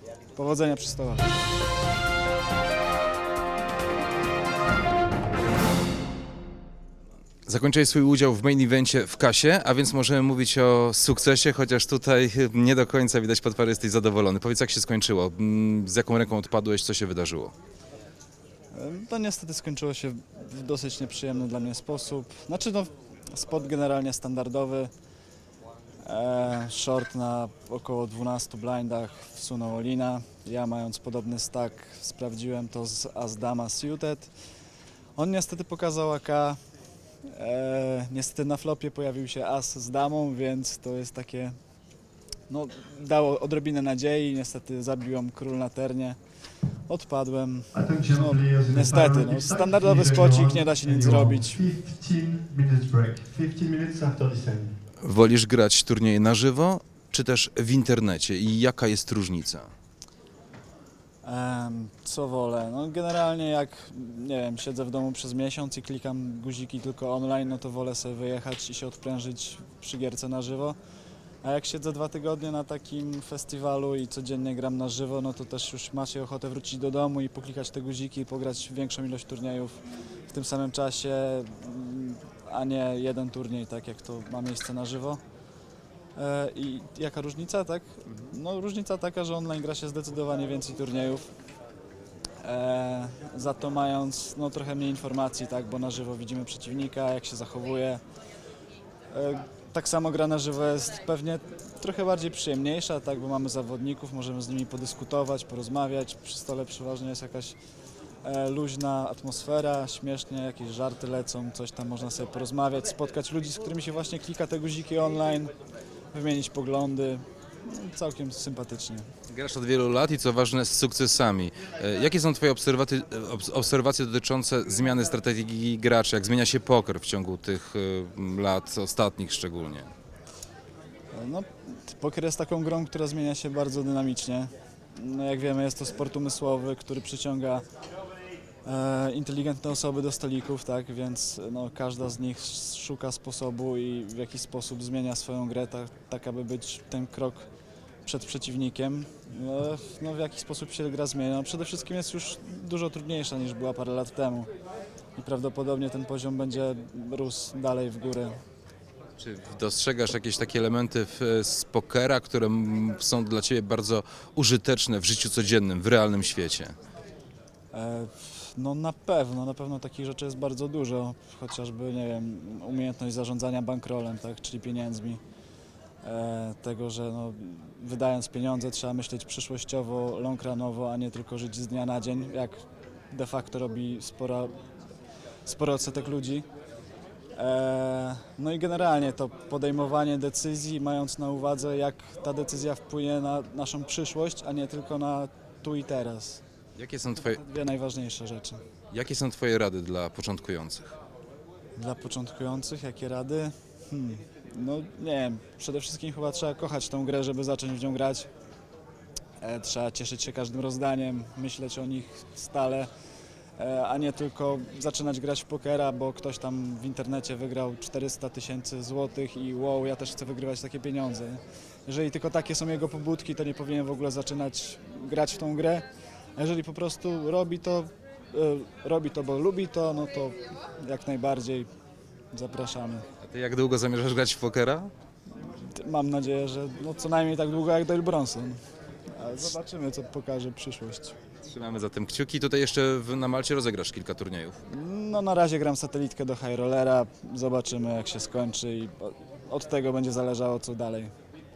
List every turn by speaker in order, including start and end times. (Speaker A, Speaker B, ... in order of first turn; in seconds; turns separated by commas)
Speaker A: 0.3-1.4, Speaker B: 7.5-17.5, Speaker A: 18.7-24.9, Speaker A: 26.0-34.3, Speaker A: 35.2-36.6, Speaker A: 37.2-41.6, Speaker A: 42.5-46.2, Speaker A: 46.9-51.6, Speaker C: 47.7-54.8, Speaker B: 55.0-59.7, Speaker A: 61.2-70.8, Speaker A: 71.4-85.2, Speaker A: 86.2-91.3, Speaker B: 88.1-88.3, Speaker A: 92.4-98.0, Speaker A: 99.1-107.6, Speaker A: 108.2-115.5, Speaker A: 116.1-119.1, Speaker B: 119.3-129.9, Speaker A: 131.1-137.6, Speaker A: 138.7-147.5, Speaker A: 148.0-154.5, Speaker A: 155.2-158.4, Speaker B: 159.2-166.8, Speaker A: 167.7-175.2, Speaker A: 176.0-182.6, Speaker A: 183.1-184.5, Speaker A: 185.4-186.5, Speaker A: 187.3-196.4, Speaker B: 196.8-197.4, Speaker A: 197.1-198.6, Speaker B: 198.9-200.9, Speaker A: 201.8-208.3, Speaker A: 209.4-212.9, Speaker A: 213.6-231.7, Speaker A: 232.3-233.1, Speaker B: 233.2-234.9, Speaker A: 235.3-241.2, Speaker B: 241.4-244.6, Speaker A: 244.7-251.1